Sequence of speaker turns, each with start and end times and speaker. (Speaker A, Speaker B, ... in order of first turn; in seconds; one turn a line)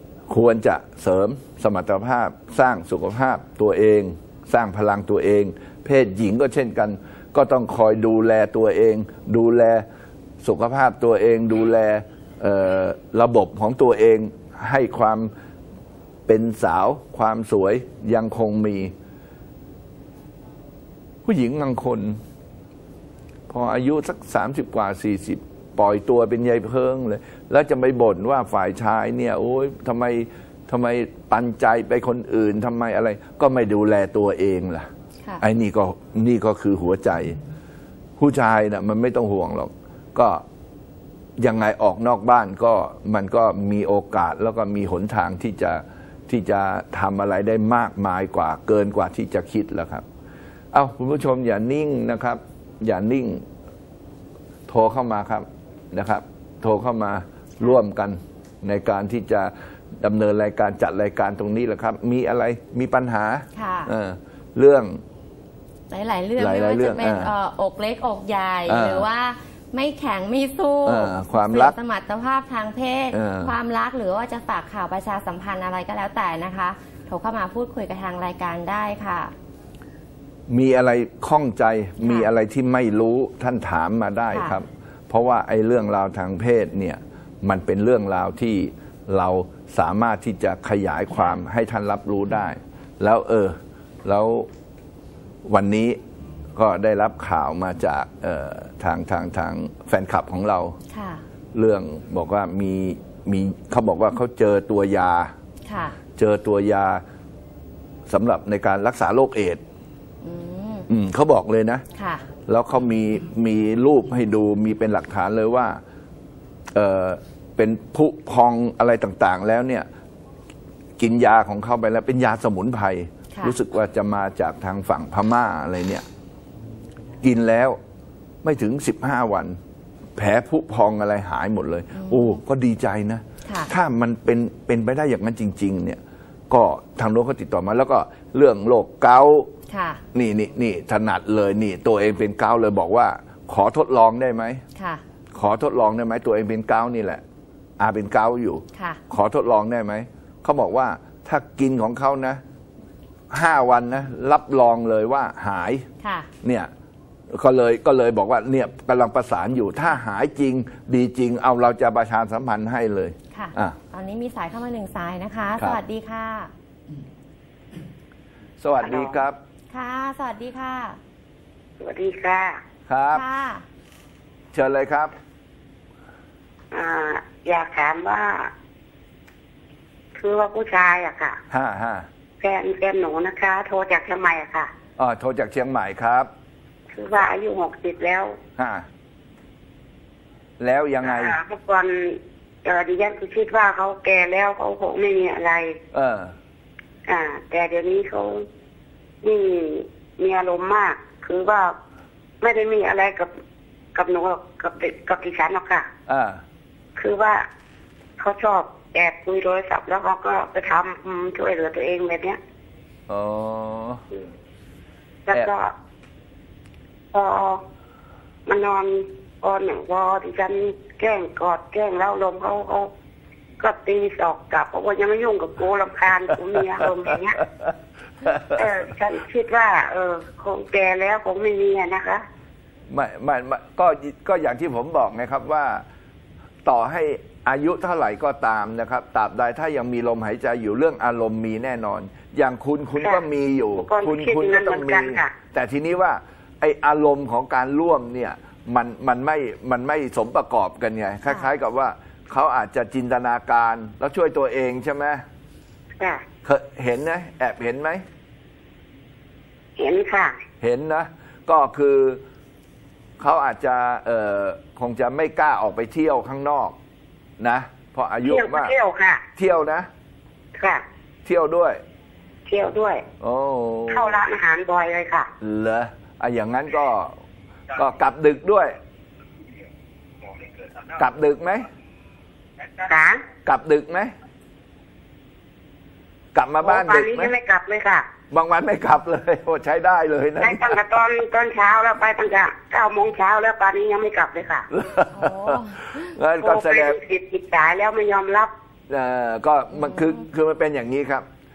Speaker A: 0.3-9.8
Speaker A: 10.4-15.3
Speaker A: 16.3-18.9
Speaker A: 21.2-22.2
Speaker A: 23.5-34.9
Speaker A: 35.4-37.4
Speaker A: 38.2-40.4
Speaker A: 41.4-50.0
Speaker A: 50.7-53.4
Speaker A: 54.7-65.0
Speaker B: 63.5-63.9
Speaker B: 65.9-79.3
Speaker A: 66.4-67.3
Speaker A: 68.7-69.0
Speaker A: 70.8-71.8
Speaker A: 73.1-73.5
Speaker A: 80.5-94.5
Speaker B: 82.0-82.3
Speaker B: 84.3-84.6
Speaker A: 95.4-96.0
Speaker A: 96.5-100.8
Speaker B: 100.9-101.2
Speaker A: 101.5-105.3
Speaker B: 105.7-106.0
Speaker A: 106.2-107.0
Speaker A: 108.1-109.6
Speaker B: 110.2-110.9
Speaker A: 110.9-111.8
Speaker B: 111.9-112.2
Speaker A: 112.5-115.8
Speaker A: 116.7-119.9
Speaker A: 121.0-126.0
Speaker A: 127.2-127.8
Speaker A: 128.4-129.6
Speaker A: 130.2-139.5
Speaker B: 131.9-132.4
Speaker B: 133.4-133.7
Speaker B: 139.7-140.0
Speaker A: 140.1-144.6
Speaker B: 144.8-145.0
Speaker A: 145.3-147.2
Speaker A: 147.8-152.4
Speaker B: 148.7-149.0
Speaker A: 153.3-155.9
Speaker B: 156.0-156.3
Speaker A: 156.4-156.7
Speaker A: 157.3-163.8
Speaker B: 163.3-166.5
Speaker A: 168.6-169.4
Speaker C: 168.8-169.2
Speaker B: 169.7-171.0
Speaker C: 171.8-172.6
Speaker A: 172.9-173.2
Speaker B: 173.1-173.6
Speaker A: 174.5-175.1
Speaker C: 176.7-178.5
Speaker C: 180.1-181.4
Speaker A: 181.5-182.1
Speaker C: 182.4-184.7
Speaker A: 185.0-186.3
Speaker C: 186.9-188.4
Speaker A: 188.6-188.9
Speaker A: 190.6-191.4
Speaker C: 191.0-195.8
Speaker A: 195.9-196.3
Speaker C: 197.1-198.5
Speaker C: 199.2-201.7
Speaker C: 202.4-203.3
Speaker C: 203.9-205.9
Speaker A: 206.1-206.4
Speaker C: 206.9-207.4
Speaker C: 208.2-212.4
Speaker A: 213.1-214.0
Speaker C: 215.3-215.7
Speaker C: 217.1-217.6
Speaker C: 218.4-222.9
Speaker C: 223.6-227.4
Speaker A: 226.5-228.8
Speaker C: 228.5-232.2
Speaker A: 232.9-235.8
Speaker A: 236.6-255.2
Speaker C: 243.8-245.3
Speaker A: 256.4-258.0
Speaker C: 259.8-260.4
Speaker A: 260.6-262.2
Speaker A: 263.2-266.8
Speaker A: 267.4-268.7
Speaker C: 268.2-269.2
Speaker A: 269.4-269.9
Speaker C: 270.6-270.8
Speaker A: 271.2-271.8
Speaker C: 272.4-273.0
Speaker A: 273.2-274.2
Speaker C: 273.9-275.3
Speaker A: 275.4-277.1
Speaker A: 277.7-278.7
Speaker A: 280.9-281.7
Speaker C: 282.8-283.2
Speaker A: 283.4-284.1
Speaker A: 286.3-287.3
Speaker C: 286.6-288.1
Speaker A: 288.3-290.8
Speaker C: 290.4-294.7
Speaker A: 294.7-297.0
Speaker B: 295.1-296.1
Speaker C: 296.4-298.5
Speaker A: 298.9-301.2